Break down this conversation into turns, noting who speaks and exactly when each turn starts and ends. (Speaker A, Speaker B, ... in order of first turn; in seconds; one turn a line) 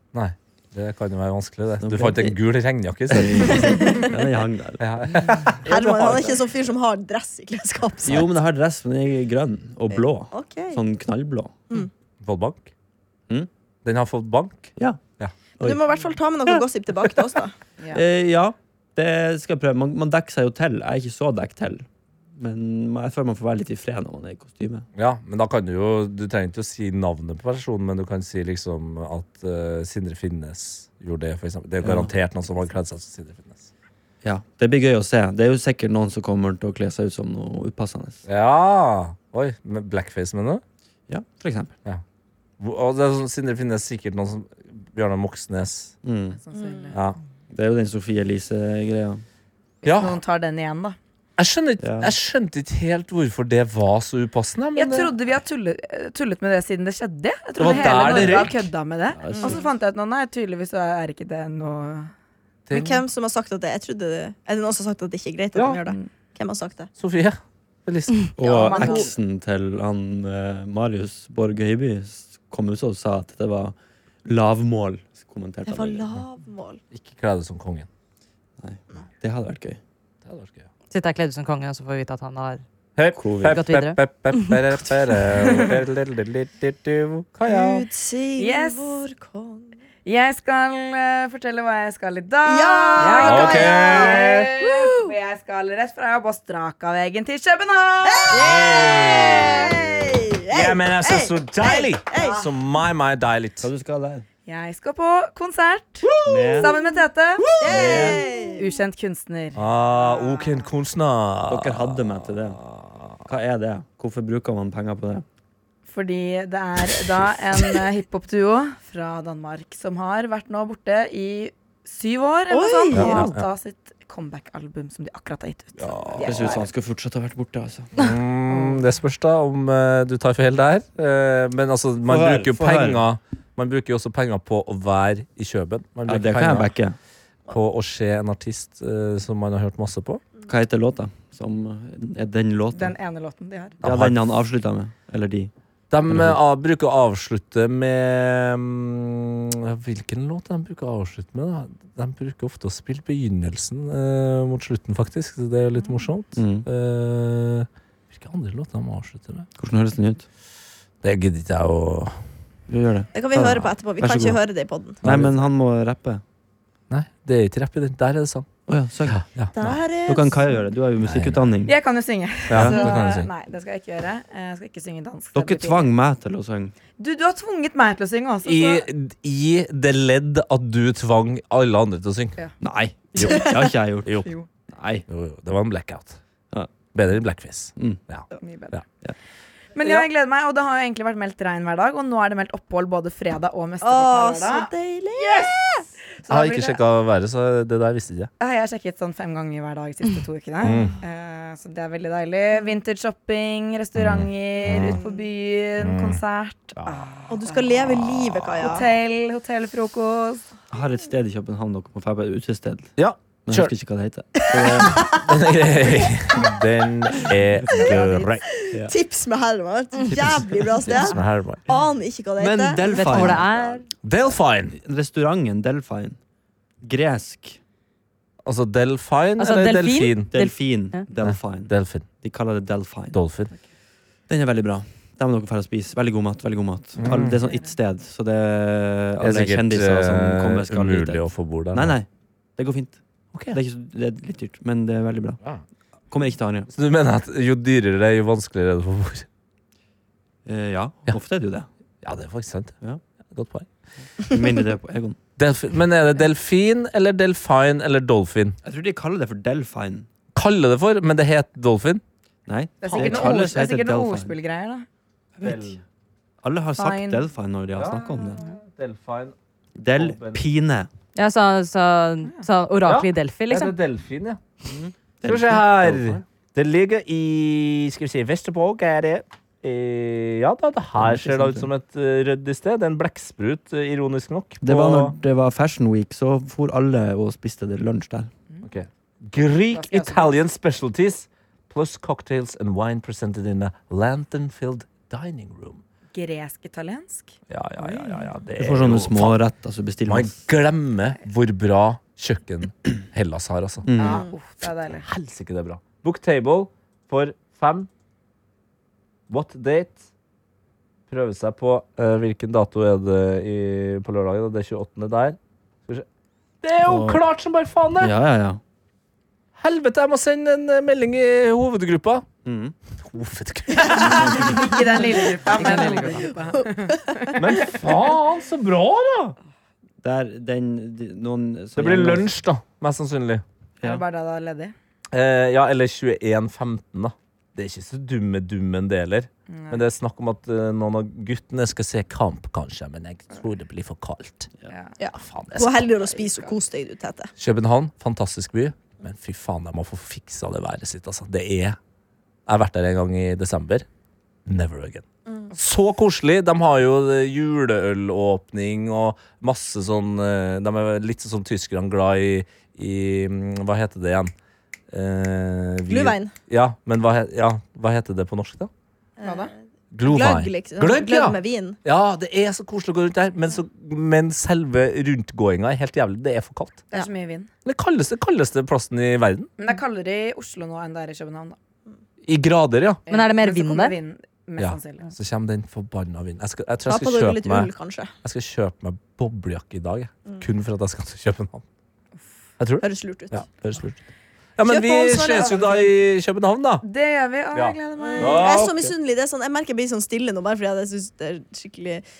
Speaker A: 0.1-4.0
Speaker B: 1.8-2.4
Speaker B: 3.1-5.3
Speaker C: 3.6-4.0
Speaker A: 4.8-6.3
Speaker C: 5.7-8.3
Speaker B: 8.1-11.6
Speaker C: 9.9-10.8
Speaker A: 12.2-12.7
Speaker A: 13.8-15.3
Speaker C: 15.6-17.5
Speaker B: 17.9-24.9
Speaker A: 25.0-33.7
Speaker B: 31.8-32.1
Speaker B: 34.2-38.2
Speaker A: 38.3-40.6
Speaker B: 41.1-41.7
Speaker A: 42.6-46.0
Speaker B: 46.0-46.4
Speaker D: 46.4-47.0
Speaker C: 46.6-46.9
Speaker A: 46.9-47.2
Speaker B: 47.5-49.2
Speaker A: 49.8-50.2
Speaker D: 49.8-51.0
Speaker A: 51.4-55.1
Speaker B: 51.8-52.1
Speaker D: 54.8-62.1
Speaker A: 57.6-58.7
Speaker B: 57.9-58.4
Speaker B: 59.2-59.6
Speaker A: 62.7-63.0
Speaker C: 62.7-66.9
Speaker A: 67.0-68.8
Speaker B: 68.4-76.1
Speaker D: 68.5-69.1
Speaker C: 68.5-69.0
Speaker C: 75.7-76.8
Speaker A: 76.9-77.9
Speaker B: 78.6-79.8
Speaker A: 80.2-80.7
Speaker E: 80.9-82.6
Speaker A: 83.0-87.8
Speaker B: 83.2-83.6
Speaker E: 83.5-84.0
Speaker C: 87.5-89.8
Speaker D: 88.4-89.0
Speaker D: 90.0-98.7
Speaker C: 92.4-95.1
Speaker E: 93.0-93.4
Speaker A: 93.2-94.5
Speaker C: 98.0-102.5
Speaker A: 98.3-99.8
Speaker A: 100.5-103.7
Speaker D: 102.2-102.5
Speaker B: 103.6-104.2
Speaker D: 104.5-110.7
Speaker B: 106.2-106.7
Speaker B: 107.6-108.2
Speaker C: 107.6-108.7
Speaker A: 109.5-113.2
Speaker B: 111.5-112.6
Speaker B: 113.3-115.2
Speaker D: 115.9-126.7
Speaker C: 122.5-123.3
Speaker A: 122.9-123.5
Speaker A: 125.8-126.6
Speaker B: 126.2-127.9
Speaker A: 128.0-136.7
Speaker D: 128.5-128.8
Speaker B: 132.1-133.0
Speaker B: 136.1-137.0
Speaker A: 137.5-140.2
Speaker B: 140.5-142.9
Speaker D: 142.7-143.8
Speaker A: 143.8-144.2
Speaker B: 143.8-145.5
Speaker A: 145.9-159.5
Speaker B: 146.1-146.4
Speaker B: 156.4-156.7
Speaker B: 159.6-160.2
Speaker A: 161.0-162.2
Speaker B: 162.7-164.4
Speaker C: 163.1-165.0
Speaker B: 165.0-166.2
Speaker A: 165.0-165.4
Speaker A: 166.9-169.8
Speaker B: 168.7-169.2
Speaker C: 169.5-170.5
Speaker B: 170.0-171.8
Speaker A: 171.0-171.4
Speaker D: 171.7-175.9
Speaker B: 172.5-172.9
Speaker A: 172.5-173.3
Speaker B: 175.3-176.7
Speaker D: 177.0-178.8
Speaker A: 178.4-182.4
Speaker B: 182.6-185.0
Speaker A: 183.2-183.5
Speaker D: 183.2-183.5
Speaker A: 184.0-184.3
Speaker A: 185.1-186.2
Speaker A: 186.9-188.8
Speaker D: 188.4-188.8
Speaker D: 189.8-195.7
Speaker C: 193.8-195.8
Speaker D: 196.2-196.8
Speaker A: 196.3-198.3
Speaker D: 198.4-208.0
Speaker A: 200.6-200.9
Speaker A: 204.0-205.0
Speaker A: 205.8-206.2
Speaker A: 206.8-207.1
Speaker C: 207.3-208.9
Speaker A: 208.0-208.6
Speaker D: 208.6-210.5
Speaker B: 210.7-212.9
Speaker A: 213.0-213.7
Speaker B: 213.5-215.2
Speaker C: 214.5-215.2
Speaker A: 215.1-218.5
Speaker D: 217.8-218.3
Speaker C: 218.6-223.3
Speaker B: 220.1-220.7
Speaker A: 221.1-221.6
Speaker B: 222.4-223.5
Speaker E: 222.9-223.8
Speaker A: 224.0-224.8
Speaker B: 224.7-226.2
Speaker B: 226.8-227.6
Speaker A: 228.4-230.3
Speaker E: 229.4-231.1
Speaker B: 230.3-233.2
Speaker A: 231.2-232.1
Speaker A: 233.1-233.5
Speaker B: 234.3-243.0
Speaker A: 237.0-237.4
Speaker D: 237.4-237.8
Speaker A: 239.2-242.0
Speaker B: 243.5-245.4
Speaker B: 246.1-246.7
Speaker A: 246.7-249.3
Speaker B: 250.4-251.7
Speaker A: 252.0-252.8
Speaker A: 253.3-253.7
Speaker B: 254.2-255.2
Speaker A: 255.4-258.6
Speaker B: 258.6-260.1
Speaker A: 260.4-262.0
Speaker B: 262.5-264.4
Speaker D: 262.8-264.9
Speaker A: 262.8-263.4
Speaker B: 265.4-265.8
Speaker A: 265.4-265.8
Speaker B: 266.4-268.4
Speaker D: 266.8-267.3
Speaker A: 267.8-269.4
Speaker B: 269.8-270.9
Speaker A: 269.9-270.4
Speaker E: 271.1-273.8
Speaker A: 272.9-274.4
Speaker B: 274.6-276.2
Speaker A: 275.2-285.1
Speaker B: 281.0-281.7
Speaker B: 284.6-288.3
Speaker A: 288.6-295.8
Speaker D: 289.7-290.4
Speaker D: 296.1-298.3
Speaker A: 297.5-299.4
Speaker B: 298.6-300.4
Speaker A: 300.1-303.9
Speaker B: 303.9-304.2
Speaker D: 304.0-305.1
Speaker A: 305.0-307.9
Speaker A: 309.3-310.1
Speaker A: 311.1-316.1
Speaker A: 316.6-318.1
Speaker B: 316.9-317.2
Speaker B: 318.0-318.6
Speaker A: 319.6-322.3
Speaker B: 322.4-322.8
Speaker A: 323.0-324.6
Speaker D: 323.7-327.8
Speaker E: 325.5-326.3
Speaker A: 327.4-329.4
Speaker B: 330.0-332.3
Speaker A: 331.8-333.4
Speaker D: 333.8-334.7
Speaker A: 335.1-344.5
Speaker D: 339.5-339.8
Speaker D: 344.7-344.9
Speaker C: 345.0-347.3
Speaker A: 345.2-345.9
Speaker A: 347.4-351.8
Speaker A: 352.5-353.9
Speaker A: 354.5-364.3
Speaker C: 355.3-355.5
Speaker A: 364.9-368.7
Speaker C: 365.9-366.3
Speaker C: 369.2-369.5
Speaker D: 369.2-369.5
Speaker A: 369.9-376.9
Speaker C: 370.1-371.8
Speaker D: 376.9-377.5
Speaker A: 377.6-379.5
Speaker D: 379.6-381.6
Speaker A: 382.2-383.0
Speaker D: 383.1-385.1
Speaker E: 383.1-384.0
Speaker A: 384.6-387.7
Speaker C: 386.9-388.1
Speaker A: 388.2-391.6
Speaker A: 392.6-394.0
Speaker C: 392.8-393.4
Speaker A: 394.6-396.8
Speaker C: 394.6-395.8
Speaker D: 396.8-398.6
Speaker A: 397.5-398.9
Speaker C: 398.0-402.0